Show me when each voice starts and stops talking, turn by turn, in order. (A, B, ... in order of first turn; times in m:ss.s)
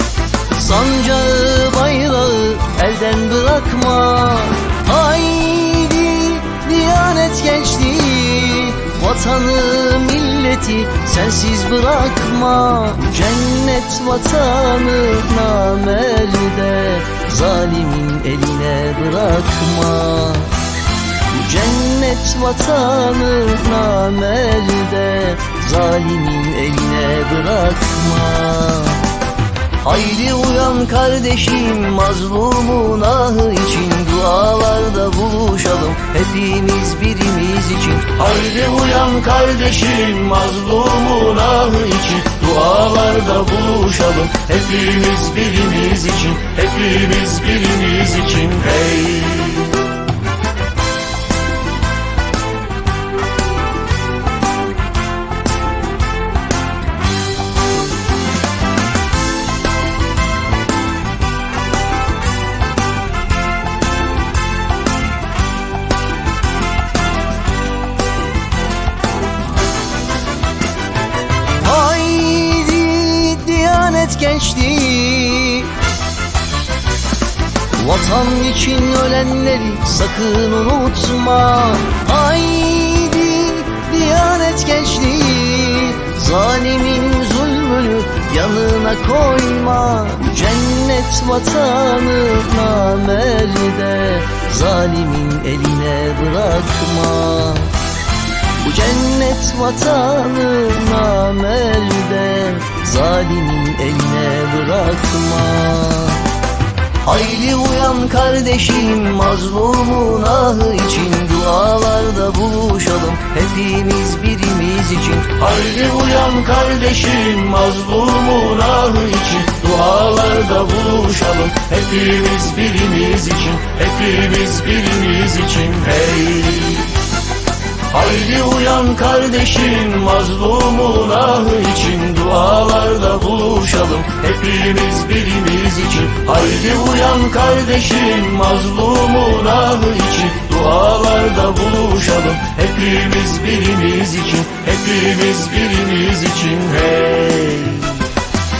0:00.5-0:20.6 A
0:21.3-0:29.1 A
0:29.8-0:49.8 A
1:11.6-1:15.8 A
1:17.7-1:37.8 A
1:38.6-1:46.3 A
1:47.0-2:07.0 A
2:07.9-2:28.1 A